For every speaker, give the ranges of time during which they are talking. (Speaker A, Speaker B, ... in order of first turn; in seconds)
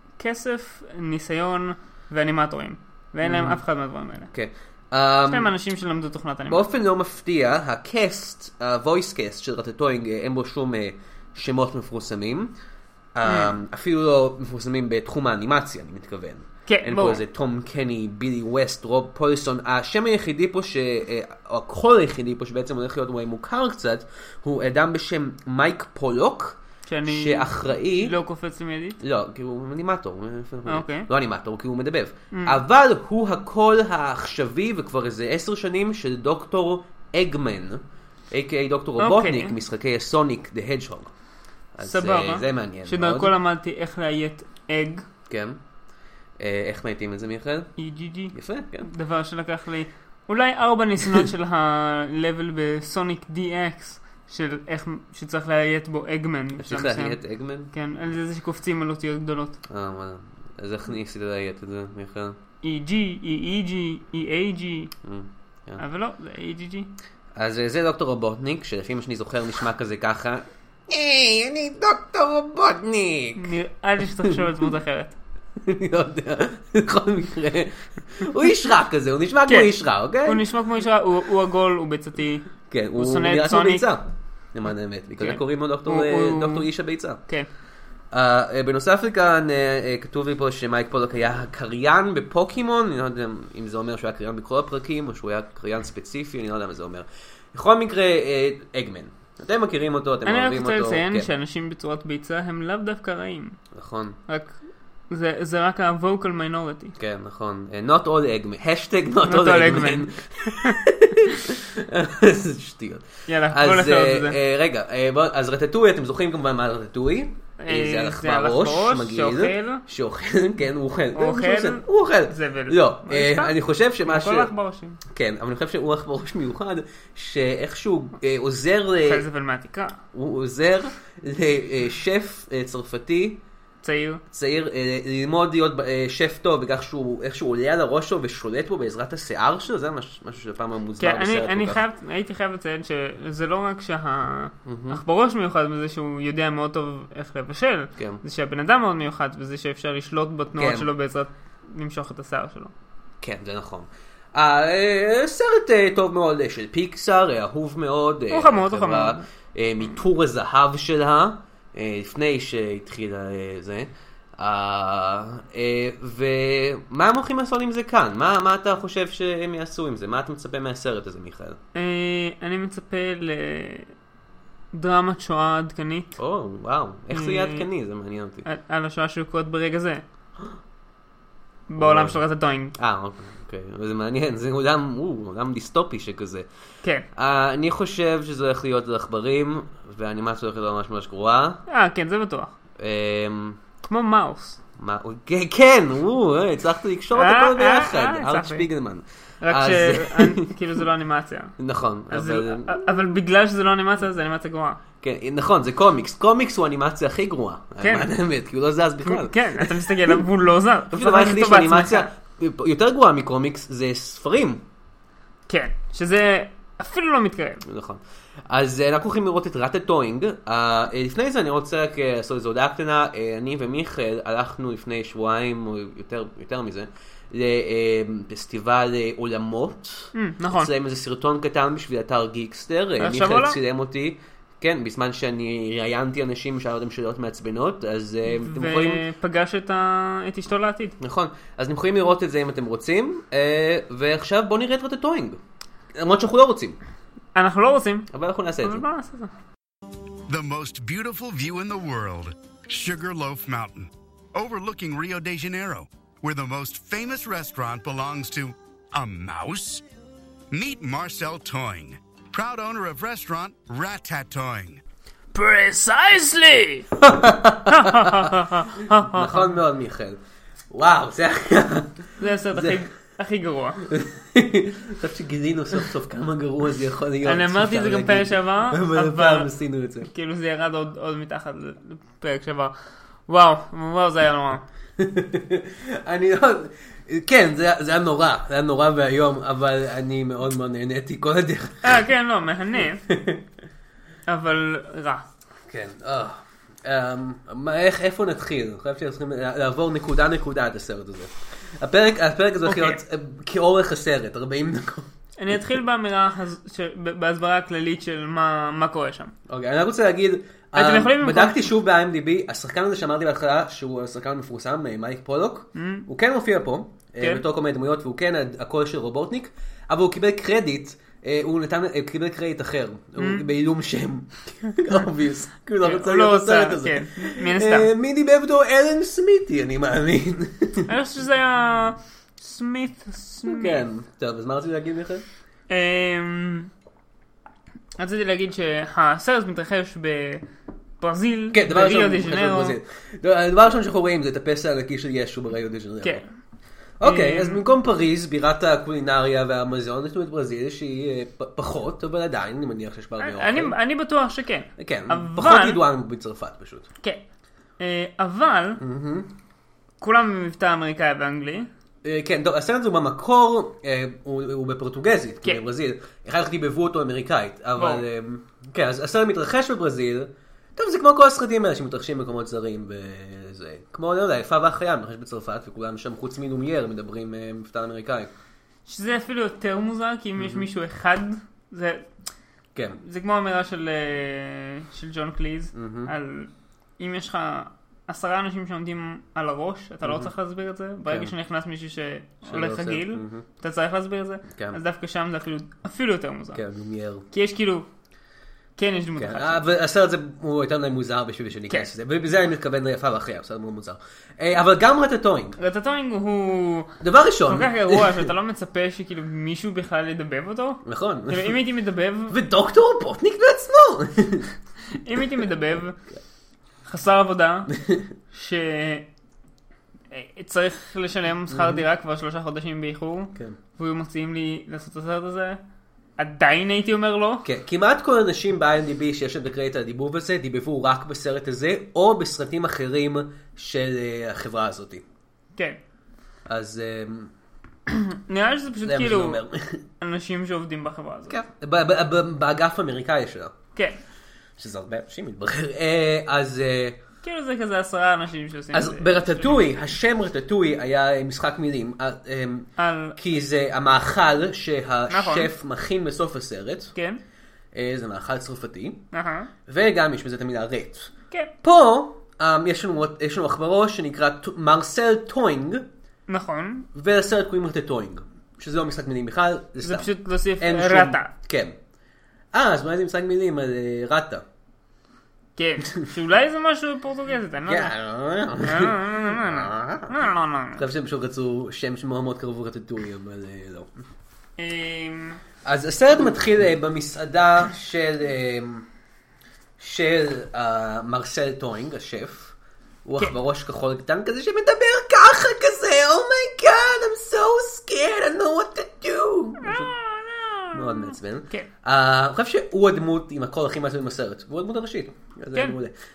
Speaker A: 0.2-4.3, 5.3-6.7, 13.2-13.5, 16.7-17.2, 26.9-29.0, 30.7-31.1, 32.3-32.6, 39.0-39.6, 41.8-45.1, 47.8-48.3, 48.9-57.2, 57.7-59.6, 62.6-64.9, 65.8-66.9, 73.4-75.2, 79.5-79.7, 80.2-82.5, 83.0-83.9, 85.2-86.7, 100.2-103.6, 104.3-104.5, 105.1-106.9, 109.2-110.8, 113.3-114.4, 117.6-119.8, 121.2-123.5, 124.0-125.0, 129.0-130.0, 133.8-134.2, 141.0-152.7, 158.3-159.2, 171.7-173.9, 174.7-176.2, 177.1-177.7, 178.4-180.0, 181.7-182.8, 191.7-192.5, 193.8-194.6, 197.1-198.7, 199.4-201.6, 202.1-204.8, 207.8-208.1, 209.0-212.1, 215.5-217.6, 230.1-230.7, 233.0-233.6, 238.3-241.0, 247.3-248.1, 248.6-249.3, 265.3-266.9, 267.7-269.6, 272.2-273.8, 277.2-279.5, 280.0-282.7, 283.3-284.6, 291.8-293.0, 294.3-295.2, 302.6-303.0, 305.4-309.3, 310.8-311.7, 315.8-316.1, 323.2-323.4, 325.8-327.9, 330.9-333.8, 335.7-336.7, 338.0-340.4, 341.0-342.8, 347.0-347.6, 353.2-355.8, 357.8-358.8, 360.0-361.7, 367.8-368.1, 378.9-382.1, 383.0-396.6, 397.3-397.9, 398.8-399.6, 405.6-412.4, 414.9-416.0, 416.9-417.7, 418.3-419.1, 420.1-425.6, 426.2-427.4, 435.6-435.8, 437.9-439.4, 440.0-441.4, 447.2-449.6, 452.8-453.2, 455.1-455.5, 456.9-457.2, 459.1-459.5, 466.3-466.9, 469.8-471.3, 475.6-477.9, 478.6-480.8, 484.6-485.4, 499.6-501.7
Speaker B: 3.2-3.6, 4.3-5.5, 6.5-12.5, 13.2-28.1, 29.0-41.1, 41.8-43.3, 45.3-45.6, 46.4-47.7, 48.3-48.9, 56.6-57.7, 59.7-62.4, 65.0-65.8, 67.4-73.5, 75.6-80.4, 82.7-87.2, 88.1-101.3, 103.7-104.2, 107.0-124.5, 125.1-129.2, 130.1-133.4, 134.3-141.8, 144.7-145.0, 148.0-148.2, 150.6-150.9, 153.2-171.6, 176.2-178.5, 181.8-182.2, 182.8-186.5, 187.1-191.6, 192.8-193.6, 194.8-200.6, 201.6-202.8, 205.0-210.2, 210.9-214.6, 217.6-239.0, 241.0-245.4, 246.0-246.8, 248.1-248.8, 267.0-268.3, 269.0-270.2, 270.7-272.8, 273.9-280.1, 285.0-292.0, 293.1-293.4, 295.7-305.1, 309.5-330.9, 333.4-335.2, 341.5-346.2, 347.0-353.8, 354.8-356.9, 358.8-359.3, 362.0-378.3, 380.4-380.7, 385.7-386.1, 390.0-390.3, 391.1-391.3, 392.4-393.4, 394.6-394.8, 396.5-397.3, 399.2-405.6, 407.0-408.3, 410.8-411.6, 412.3-414.5, 417.7-418.1, 421.5-421.8, 427.4-435.0, 436.5-437.3, 438.8-439.8, 441.3-443.5, 444.6-447.0, 448.7-456.9, 457.8-459.0, 459.7-465.9, 466.9-471.8, 472.5-474.4, 477.7-480.1, 480.8-483.9, 485.6-488.9, 489.8-492.5, 493.1-499.9, 500.7-505.9
Speaker C: 250.3-259.8, 260.5-264.8